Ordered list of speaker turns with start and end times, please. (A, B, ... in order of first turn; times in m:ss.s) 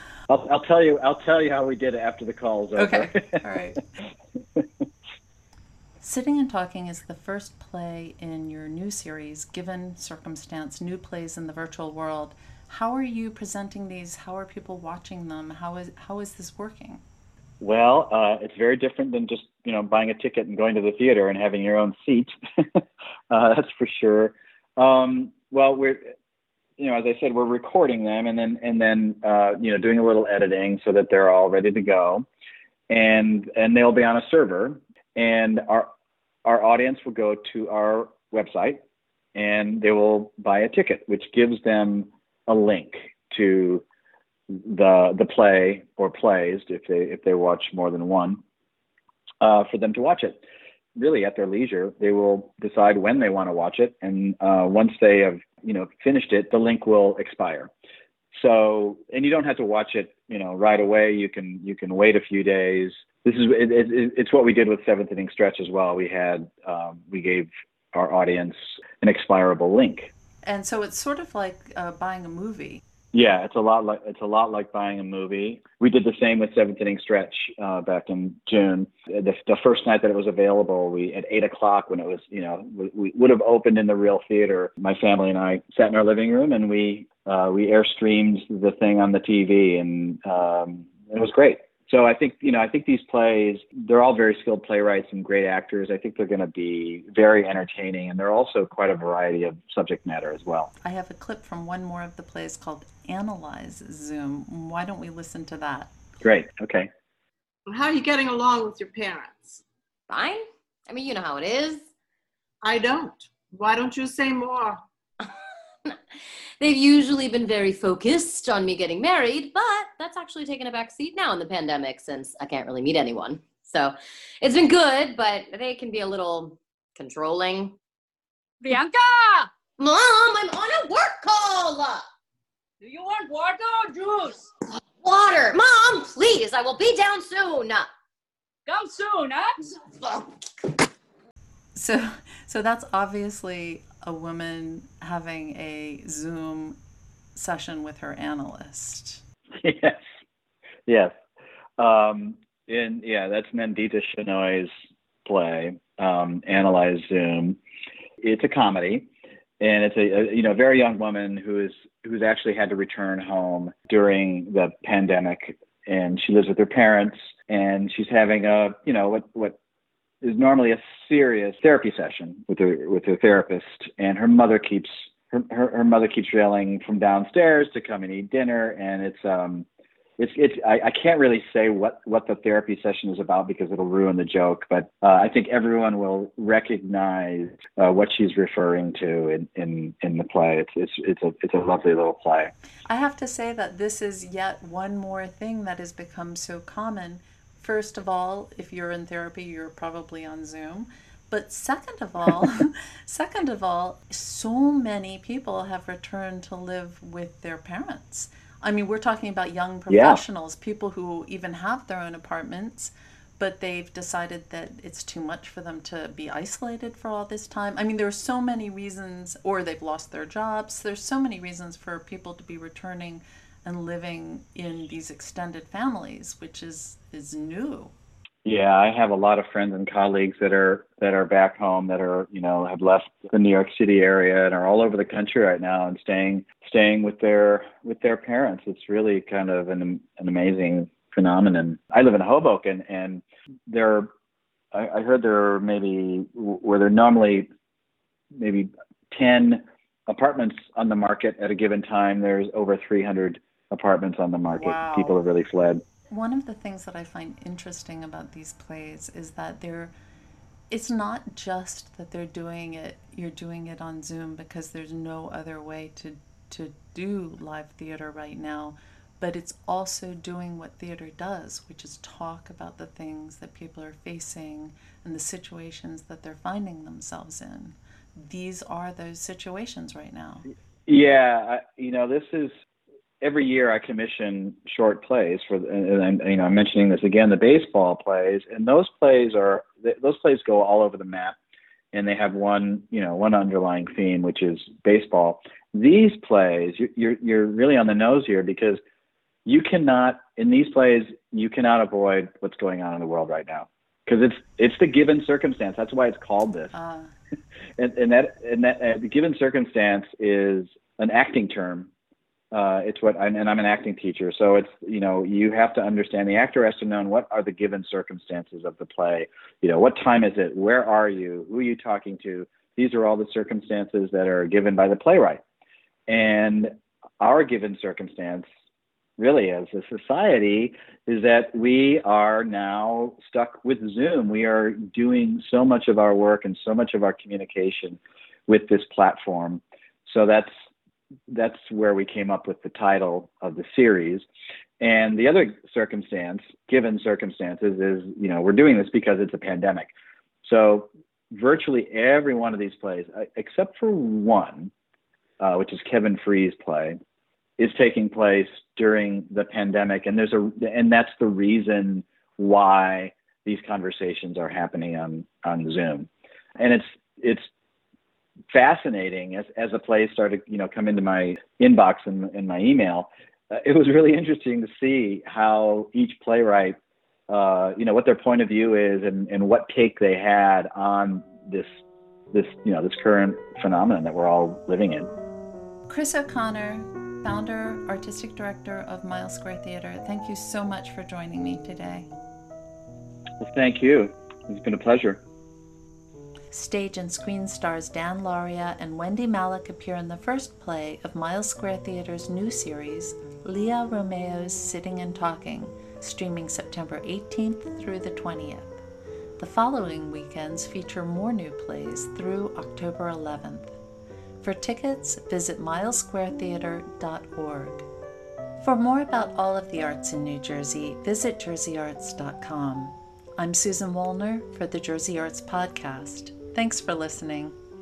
0:00.3-0:03.4 A
0:02.8-0:03.8 B
0:06.0-0:17.0 B
0:17.6-0:26.0 A
0:26.8-0:32.2 A
0:32.9-0:35.9 A
0:36.4-0:38.8 A
0:39.4-0:43.8 A
0:44.5-0:48.4 A
0:49.4-0:50.4 A
0:51.0-0:57.7 A
0:58.3-1:10.1 A
1:10.4-1:12.8 B
1:13.1-1:40.7 A
1:40.8-1:45.9 B
1:46.2-1:46.9 A
1:47.7-1:49.6 C
1:50.1-1:51.9 D
1:52.6-1:54.8 C
1:56.6-2:07.8 D
2:08.6-2:09.5 E
2:09.8-2:12.1 D
2:12.8-2:14.5 E
2:15.0-2:17.9 D
2:18.6-2:19.6 E
2:21.8-2:26.8 B
2:27.4-2:29.2 B
2:29.6-2:30.0 A
2:30.9-2:31.1 A
2:31.8-2:34.7 A
2:35.2-2:37.6 A
2:38.2-2:39.1 A
2:39.6-2:49.6 A
2:50.2-2:59.6 A
3:00.2-3:12.5 A
3:12.9-3:47.9 B
3:29.9-3:30.2 A
3:48.4-4:04.1 A
4:04.7-4:07.5 A
4:08.4-4:15.8 A
4:14.5-4:15.2 B
4:16.1-4:19.9 B
4:20.7-4:40.4 B
4:40.9-4:42.5 A
4:43.2-4:51.4 A
4:51.9-4:58.8 A
4:59.5-5:06.8 A
5:06.7-5:07.1 B
5:07.8-5:11.9 A
5:12.5-5:25.4 A
5:26.1-5:28.5 A
5:29.2-5:40.5 A
5:41.3-5:44.2 A
5:44.8-5:49.9 A
5:50.4-5:54.7 A
5:55.4-5:57.0 A
5:57.6-6:07.5 A
6:08.5-6:16.8 A
6:17.3-6:21.7 A
6:22.3-6:25.1 A
6:25.9-6:32.1 B
6:33.4-6:35.2 A
6:36.5-6:48.8 B
6:49.4-6:53.7 B
6:54.4-6:57.9 B
6:58.6-7:07.6 B